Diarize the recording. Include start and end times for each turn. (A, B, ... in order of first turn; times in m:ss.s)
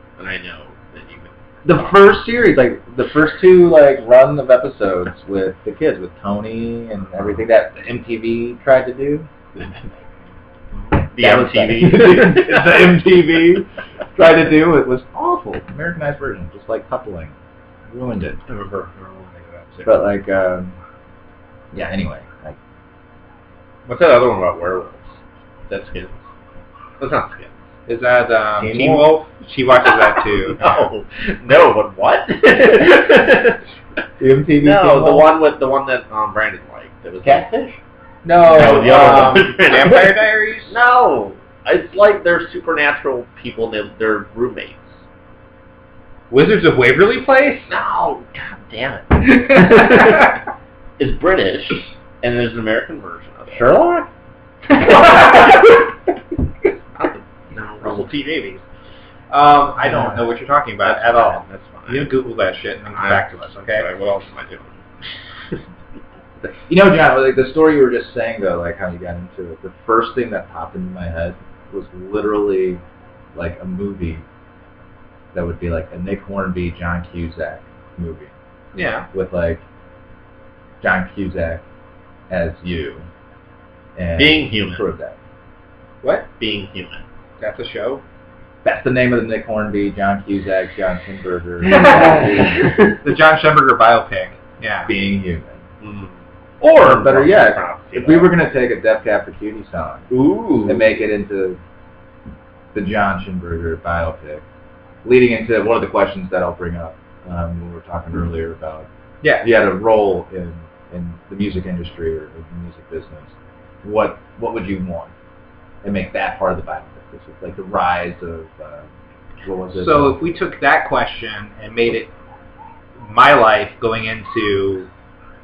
0:00.2-0:02.0 A
0:01.6-0:09.3 B
0:10.9-0:12.9 A
0:11.1-0:17.3 B
0:17.9-0:18.4 B
0:18.5-0:20.0 A
0:19.8-0:20.8 B
0:21.7-0:22.6 B
0:23.9-0:25.2 A
0:25.7-0:26.3 A
0:27.0-0:27.5 A
0:27.9-0:30.8 C
0:28.6-0:29.1 B
0:29.8-0:33.6 A
0:34.2-0:35.3 B
0:34.6-0:37.8 A
0:37.2-0:37.5 B
0:38.2-0:39.5 B
0:38.2-0:40.7 C
0:38.4-0:45.0 A
0:46.3-0:47.7 C
0:47.7-0:50.4 A
0:51.0-0:53.8 A
0:53.5-0:54.1 B
0:54.9-0:55.4 A
0:57.0-0:58.6 A
0:57.8-0:58.6 C
0:59.3-1:03.9 C
1:00.8-1:02.1 A
1:02.9-1:05.6 A
1:06.5-1:12.8 B
1:13.3-1:14.2 B
1:15.3-1:18.3 B
1:18.7-1:19.1 C
1:19.1-1:19.6 B
1:20.8-1:21.6 B
1:22.3-1:23.1 B
1:24.0-1:25.2 B
1:24.2-1:24.8 A
1:26.4-1:27.0 A
1:27.4-1:28.0 C
1:28.6-1:32.7 B
1:31.7-1:32.1 C
1:31.8-1:32.8 A
1:33.0-1:34.9 C
1:34.9-1:35.6 B
1:35.8-1:38.3 A
1:36.6-1:41.6 B
1:40.1-1:40.9 A
1:42.7-1:44.4 B
1:45.0-1:48.9 B
1:49.2-1:49.5 C
1:49.4-1:55.1 B
1:55.8-1:58.9 B
1:59.4-2:00.2 B
1:59.8-2:02.1 C
2:03.0-2:04.9 C